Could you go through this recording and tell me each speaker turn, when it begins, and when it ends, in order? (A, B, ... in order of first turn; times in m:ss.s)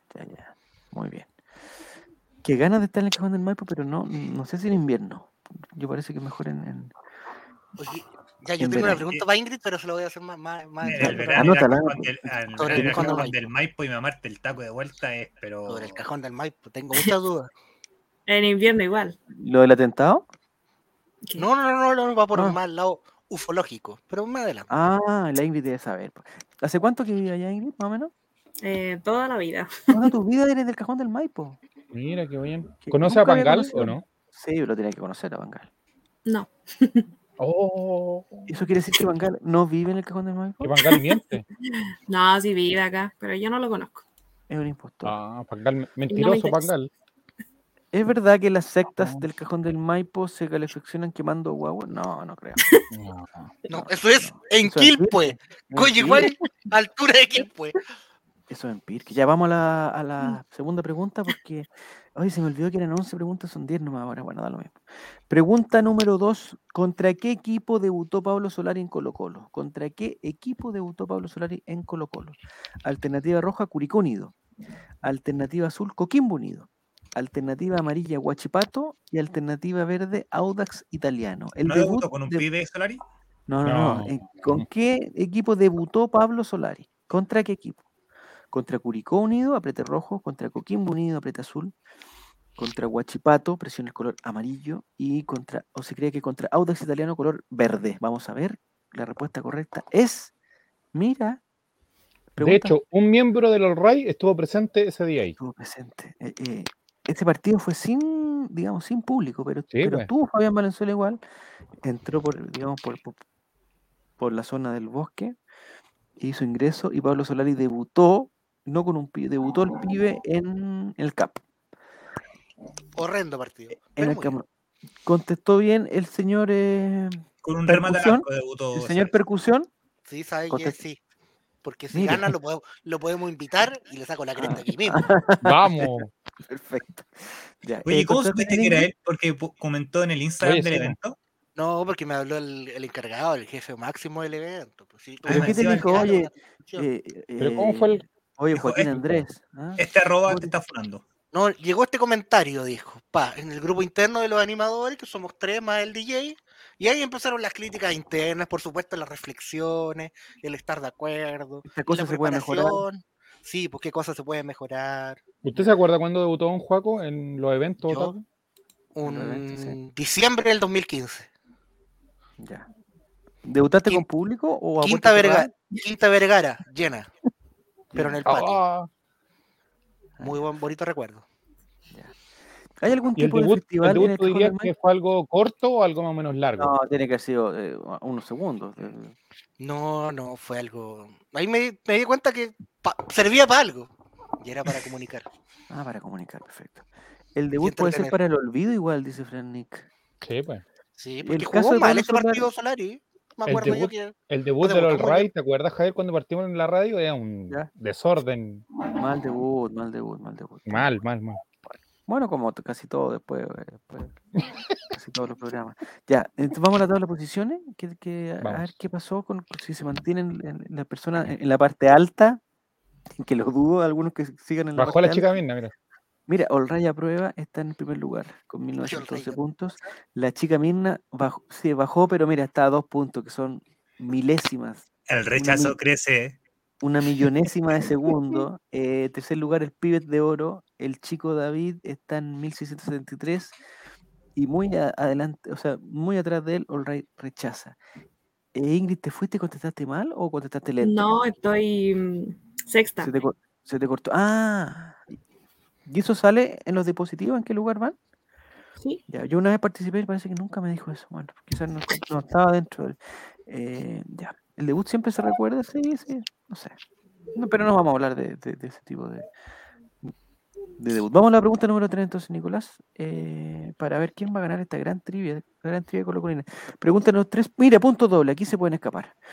0:00.1-0:01.3 A
0:02.4-0:06.9 A
0:07.8-0:11.7 B
0:08.6-0:09.0 A
0:10.8-0:16.0 C
0:10.9-0:13.3 A
0:12.6-0:13.5 B
0:15.7-0:17.5 B
0:18.3-0:19.2 D
0:19.4-0:20.3 A
0:21.4-0:24.7 B
0:22.3-0:22.6 A
0:24.7-0:28.1 A
0:28.6-0:30.1 D
0:29.9-0:31.6 A
0:31.9-0:34.0 E
0:32.8-0:35.7 A
0:36.3-0:37.1 D
0:37.4-0:38.5 E
0:38.5-0:40.8 A
0:40.6-0:41.5 E
0:40.9-0:41.2 D
0:41.7-0:44.0 D
0:44.5-0:45.2 A
0:45.0-0:46.9 E
0:46.1-0:46.7 D
0:47.9-0:52.6 A
0:49.0-0:49.2 E
0:52.9-0:53.6 E
0:53.7-0:57.8 B
0:53.7-0:56.4 A
0:58.5-1:04.8 A
1:05.3-1:14.3 A
1:15.0-1:22.5 A
1:21.6-1:23.0 C
1:23.5-1:27.8 A
1:23.6-1:24.7 E
1:28.5-1:31.7 A
1:32.6-1:40.3 A
1:40.9-1:41.4 A
1:42.4-1:42.8 A
1:42.4-1:45.4 E
1:45.4-1:51.2 A
1:49.7-1:50.1 E
1:51.8-1:53.2 A
1:54.2-1:55.4 A
1:56.2-2:01.4 A
2:03.0-2:04.4 B
2:03.7-2:04.5 A
2:05.0-2:09.7 A
2:07.4-2:09.1 C
2:10.1-2:11.0 B
2:10.5-2:10.8 A
2:11.6-2:15.1 B
2:11.9-2:12.3 A
2:14.4-2:15.9 A
2:15.4-2:16.1 E
2:16.5-2:18.9 A
2:17.8-2:21.2 C
2:20.4-2:21.0 E
2:21.6-2:26.9 B
2:25.3-2:26.2 C
2:25.3-2:30.5 A
2:27.4-2:28.0 E
2:28.5-2:28.9 C
2:29.8-2:31.0 C
2:31.3-2:45.2 B
2:41.7-2:42.8 A
2:45.4-2:48.2 E
2:47.8-2:48.1 B
2:49.0-2:51.3 B
2:49.0-2:49.8 A
2:52.4-2:52.7 A
2:53.4-2:55.5 A
2:54.8-2:57.1 B
2:57.9-2:58.2 A
2:57.9-2:58.6 B
2:58.3-2:58.9 E
3:00.2-3:00.4 A
3:00.2-3:01.2 B
3:02.8-3:04.7 A
3:03.2-3:06.7 E
3:06.6-3:09.2 A
3:09.6-3:15.3 B
3:15.7-3:16.8 A
3:17.4-3:19.9 A
3:17.6-3:18.1 B
3:20.2-3:20.6 E
3:21.0-3:25.3 B
3:21.2-3:22.5 A
3:23.5-3:28.7 E
3:29.0-3:30.9 A
3:30.7-3:31.4 E
3:31.7-3:34.2 A
3:34.4-3:34.8 E
3:34.9-3:42.4 A
3:38.4-3:38.7 E
3:43.2-3:45.3 A
3:44.8-3:45.7 E
3:46.3-3:55.8 A
3:48.8-3:49.4 B
3:55.1-3:56.4 C
3:56.8-4:03.6 A
4:04.4-4:07.8 A
4:08.6-4:11.2 A
4:10.8-4:13.3 D
4:13.0-4:15.0 A
4:15.9-4:18.0 A
4:19.1-4:26.8 A
4:27.4-4:29.3 A
4:30.8-4:39.2 A